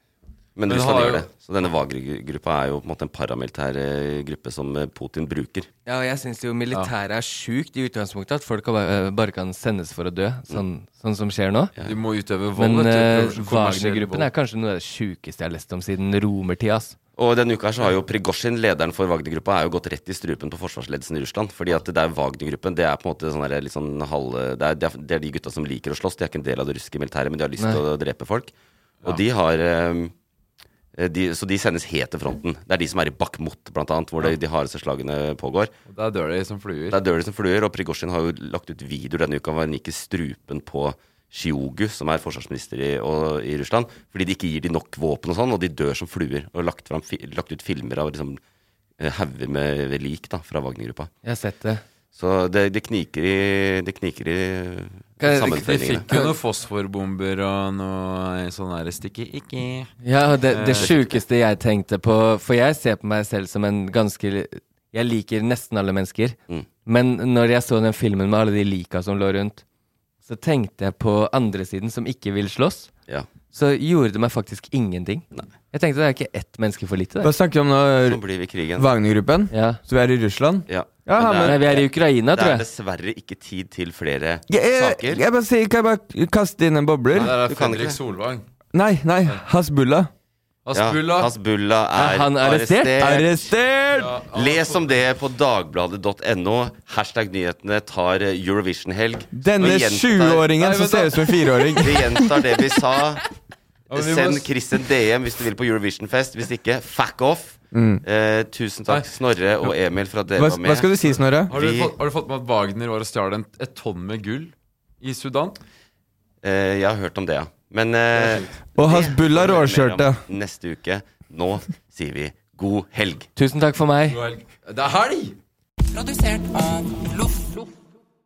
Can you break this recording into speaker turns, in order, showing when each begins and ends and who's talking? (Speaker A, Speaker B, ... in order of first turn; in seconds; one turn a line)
Speaker A: 0.6-5.7
Speaker B: 0.7-1.3
Speaker C: 5.8-11.7
Speaker B: 11.8-14.3
Speaker C: 12.6-16.9
Speaker A: 17.2-28.5
Speaker A: 29.0-30.1
Speaker A: 30.9-35.7
Speaker B: 35.9-37.0
Speaker A: 36.9-48.4
Speaker A: 49.0-51.1
Speaker C: 51.2-51.8
Speaker A: 52.1-56.1
Speaker C: 55.2-56.3
Speaker B: 55.5-59.9
Speaker C: 60.0-69.6
Speaker B: 60.5-60.9
Speaker A: 60.8-61.2
Speaker C: 70.2-72.9
Speaker C: 73.5-77.3
Speaker D: 77.2-78.2
Speaker A: 78.0-78.9
Speaker D: 78.7-81.6
Speaker C: 79.5-79.8
Speaker A: 80.7-85.2
Speaker C: 81.3-82.6
Speaker D: 84.5-87.3
Speaker B: 87.1-88.4
Speaker A: 87.2-88.0
Speaker D: 88.7-90.1
Speaker B: 90.7-91.3
Speaker A: 90.7-93.3
Speaker C: 91.9-93.2
Speaker D: 93.0-94.1
Speaker B: 93.9-95.0
Speaker A: 94.3-100.4
Speaker D: 99.3-102.3
Speaker B: 99.6-101.8
Speaker A: 101.8-103.2
Speaker B: 103.9-104.5
Speaker A: 103.9-110.9
Speaker D: 107.7-108.0
Speaker D: 110.3-111.5
Speaker B: 111.5-115.6
Speaker A: 111.5-112.0
Speaker A: 116.4-123.3
Speaker B: 118.1-118.6
Speaker D: 118.8-120.2
Speaker C: 123.3-124.2
Speaker B: 124.1-125.4